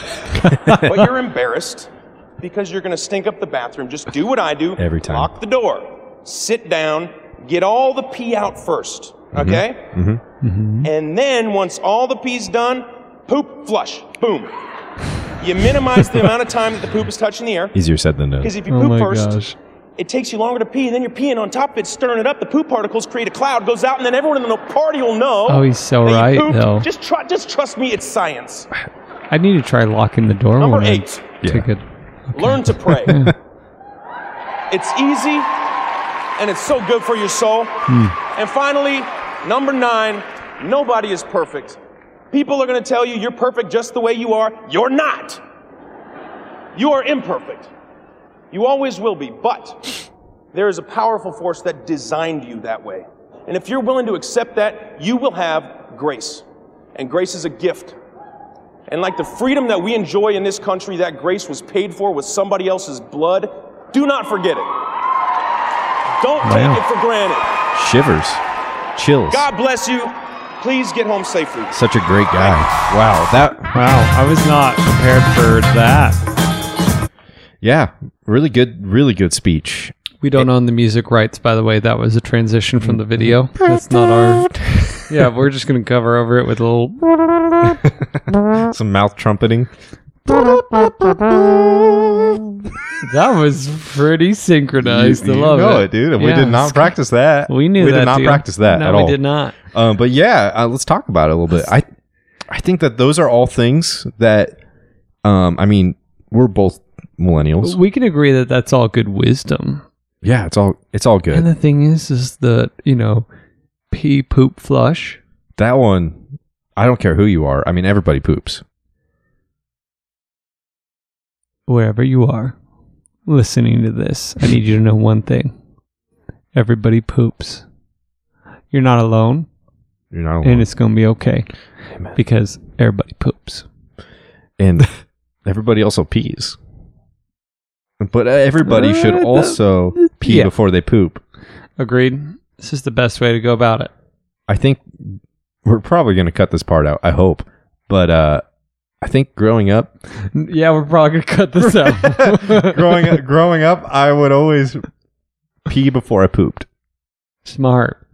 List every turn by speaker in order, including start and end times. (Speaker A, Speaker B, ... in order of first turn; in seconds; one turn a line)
Speaker A: 0.4-0.9
Speaker B: 0.7-9.9
Speaker C: 4.8-5.3
Speaker C: 9.3-10.2
Speaker A: 10.4-10.9
Speaker B: 10.8-14.6
Speaker B: 15.4-17.8
Speaker C: 17.7-18.6
Speaker B: 18.4-19.4
Speaker A: 18.7-19.6
Speaker B: 20.0-28.7
Speaker A: 25.5-26.9
Speaker A: 29.3-33.3
Speaker B: 30.6-31.3
Speaker C: 31.4-31.7
Speaker B: 32.3-33.2
Speaker B: 34.7-35.6
Speaker B: 36.4-41.8
Speaker A: 37.9-38.2
Speaker B: 42.3-45.4
Speaker B: 46.8-47.7
Speaker B: 48.5-58.0
Speaker B: 58.9-64.8
Speaker B: 66.2-67.5
Speaker A: 66.4-66.8
Speaker C: 67.7-68.4
Speaker C: 69.0-69.5
Speaker B: 69.3-71.8
Speaker C: 71.7-73.7
Speaker A: 73.7-76.2
Speaker C: 77.6-80.5
Speaker A: 80.2-84.5
Speaker C: 82.8-85.0
Speaker A: 85.1-87.8
Speaker C: 88.5-89.7
Speaker C: 90.3-92.7
Speaker A: 93.0-96.9
Speaker C: 94.8-99.2
Speaker A: 97.5-99.6
Speaker C: 99.7-101.9
Speaker C: 102.5-104.6
Speaker C: 105.2-107.8
Speaker A: 107.6-109.8
Speaker C: 110.2-111.5
Speaker A: 111.3-113.3
Speaker A: 113.9-115.2
Speaker C: 115.6-116.2
Speaker C: 116.8-118.6
Speaker A: 121.7-122.5
Speaker A: 123.3-125.5
Speaker A: 126.5-127.7
Speaker A: 128.7-129.5
Speaker C: 130.1-130.7
Speaker A: 130.4-131.5
Speaker A: 132.1-133.7
Speaker C: 134.6-134.9
Speaker C: 135.4-136.6
Speaker C: 138.0-141.2
Speaker A: 138.6-140.5
Speaker A: 141.8-143.9
Speaker C: 144.5-148.4
Speaker C: 149.0-149.9
Speaker A: 150.3-153.2
Speaker C: 151.6-154.9
Speaker C: 155.7-156.7
Speaker A: 157.4-158.0